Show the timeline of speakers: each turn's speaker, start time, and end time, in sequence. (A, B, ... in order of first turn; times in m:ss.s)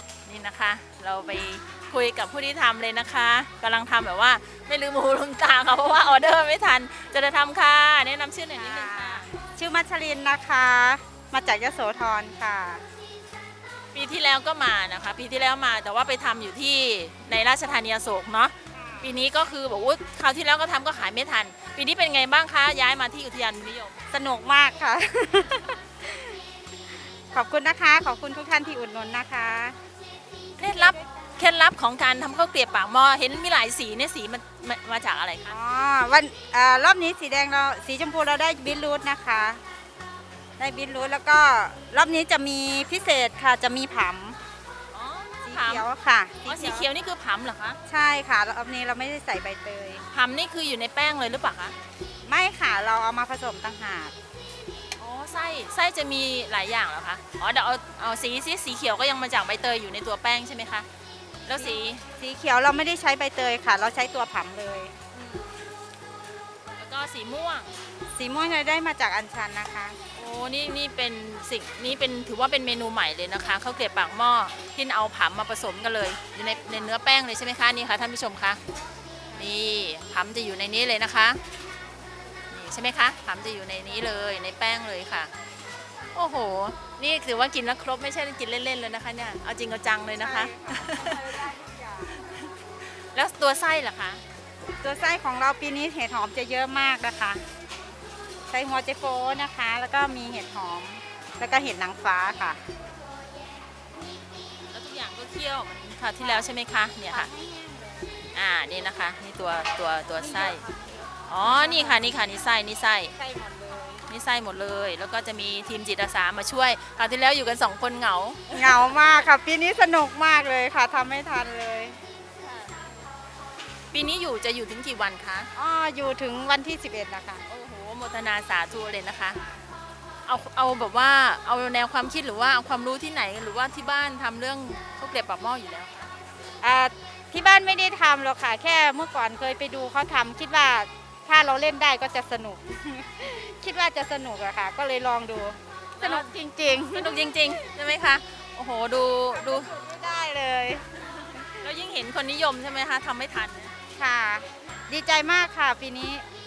0:00.2-0:09.3 A
0:08.5-0:12.8 B
0:13.9-0:24.0 A
0:18.7-0:19.1 B
0:24.1-0:26.4 B
0:27.3-0:29.8 B
0:30.6-0:35.6 A
0:35.5-0:39.6 B
0:40.6-0:44.4 B
0:44.9-0:45.9 A
0:45.4-0:46.9 B
0:46.4-0:47.8 A
0:47.9-0:50.0 B
0:50.1-0:51.7 A
0:52.2-0:54.1 B
0:55.0-1:00.9 A
1:01.4-1:02.0 A
1:01.6-1:05.0 B
1:05.1-1:05.6 A
1:06.8-1:07.7 A
1:08.1-1:10.0 B
1:10.1-1:18.6 A
1:19.4-1:21.4 A
1:22.5-1:25.3 A
1:26.1-1:31.5 A
1:30.2-1:32.2 B
1:32.1-1:32.5 A
1:33.1-1:34.2 A
1:34.8-1:37.4 B
1:38.5-1:42.6 B
1:44.7-1:47.3 A
1:47.1-1:48.1 B
1:48.3-1:50.6 A
1:50.2-1:52.2 B
1:51.3-1:53.1 A
1:53.2-1:54.0 B
1:54.1-1:58.6 A
1:58.5-2:02.0 B
2:03.9-2:05.5 A
2:05.5-2:07.4 B
2:07.5-2:09.4 A
2:10.3-2:16.1 A
2:16.6-2:27.3 B
2:26.0-2:26.3 A
2:26.9-2:29.7 A
2:29.3-2:31.4 B
2:31.5-2:33.7 A
2:34.0-2:36.2 B